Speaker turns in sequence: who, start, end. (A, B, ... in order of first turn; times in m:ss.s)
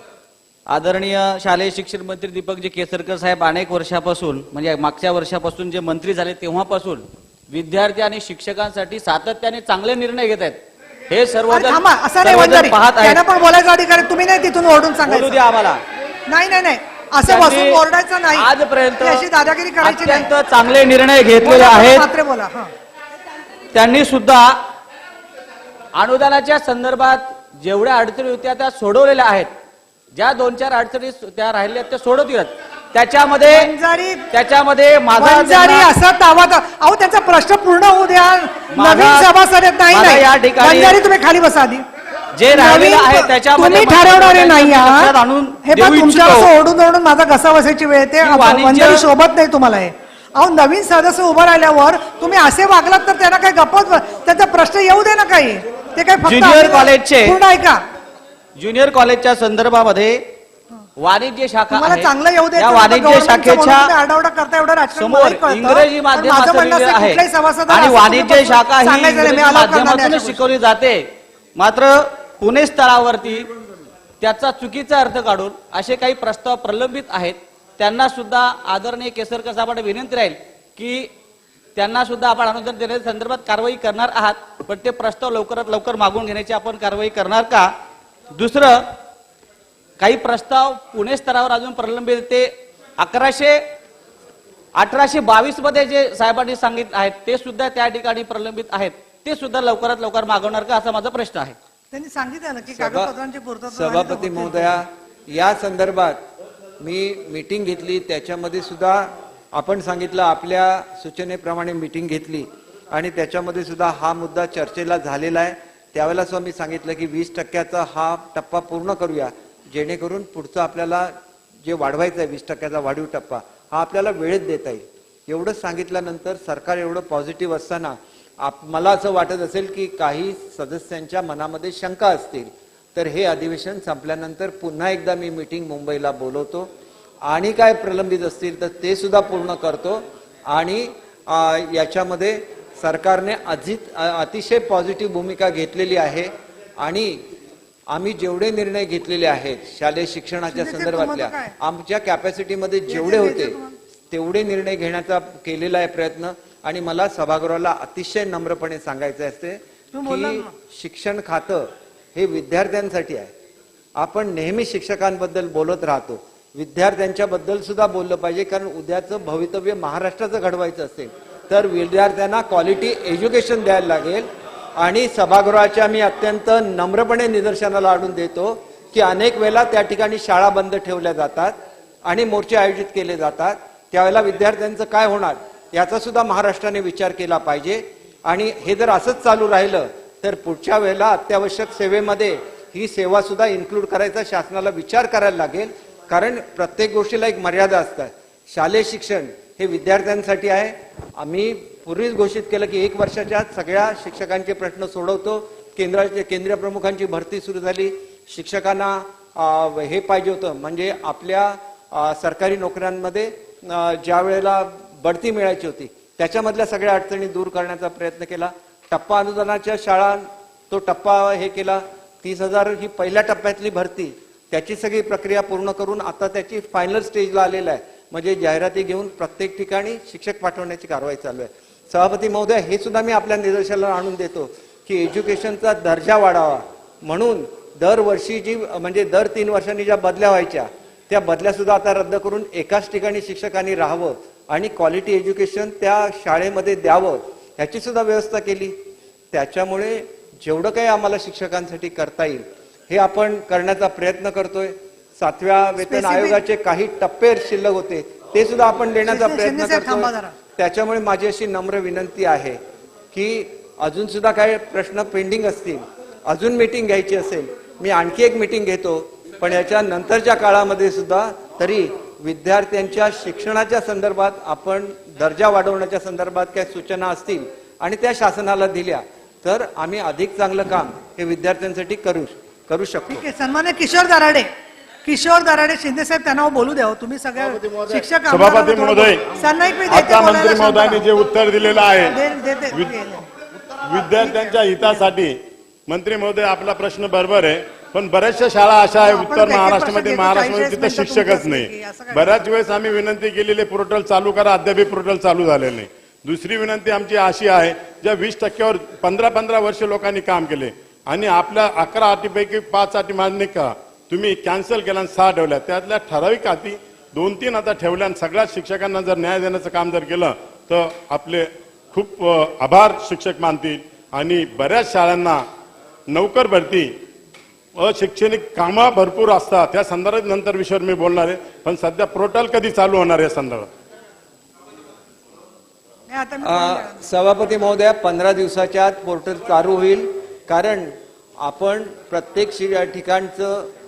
0:00.7-0:10.6 A
0:11.1-0:13.2 A
0:11.5-0:15.4 B
0:15.0-0:15.8 A
0:16.3-0:18.5 B
0:17.3-0:17.8 A
0:18.4-0:19.3 A
0:19.0-0:20.3 B
0:19.8-0:22.1 A
0:21.4-0:22.7 B
0:23.7-0:24.6 A
0:26.0-0:29.5 A
0:30.1-0:33.7 A
0:33.4-0:34.3 B
0:34.3-0:35.9 A
0:35.2-0:41.8 B
0:38.7-0:39.3 A
0:39.9-0:41.0 A
0:42.4-0:46.5 A
0:42.4-0:45.1 B
0:45.6-0:57.8 B
0:48.2-0:49.1 A
0:56.2-0:57.4 A
0:58.6-1:00.2 A
1:01.0-1:03.9 A
1:01.7-1:10.4 B
1:05.0-1:13.5 A
1:14.2-1:21.1 A
1:21.8-1:27.7 A
1:28.3-1:28.9 A
1:30.0-1:33.6 A
1:34.8-1:41.6 A
1:41.9-1:44.7 B
1:42.7-1:43.1 C
1:43.7-1:46.2 C
1:46.8-2:01.1 C
2:01.6-2:16.7 C
2:17.2-2:27.2 C
2:27.9-2:33.6 C
2:30.5-2:31.5 B
2:32.9-2:33.8 B
2:34.1-2:43.3 C
2:39.9-2:40.5 B
2:44.0-4:08.8 C
4:09.3-4:22.6 C
4:15.8-4:16.4 B
4:19.1-4:20.3 B
4:23.1-4:43.2 C
4:43.1-4:44.5 B
4:45.0-4:51.0 B
4:48.3-4:49.2 D
4:49.9-4:52.2 D
4:52.0-4:53.2 B
4:52.7-4:53.0 D
4:53.8-5:25.4 D
4:54.2-4:55.0 B
4:59.0-5:02.5 B
5:26.1-5:26.9 D
5:27.8-5:33.7 D
5:36.1-5:37.0 B
5:36.4-5:43.7 C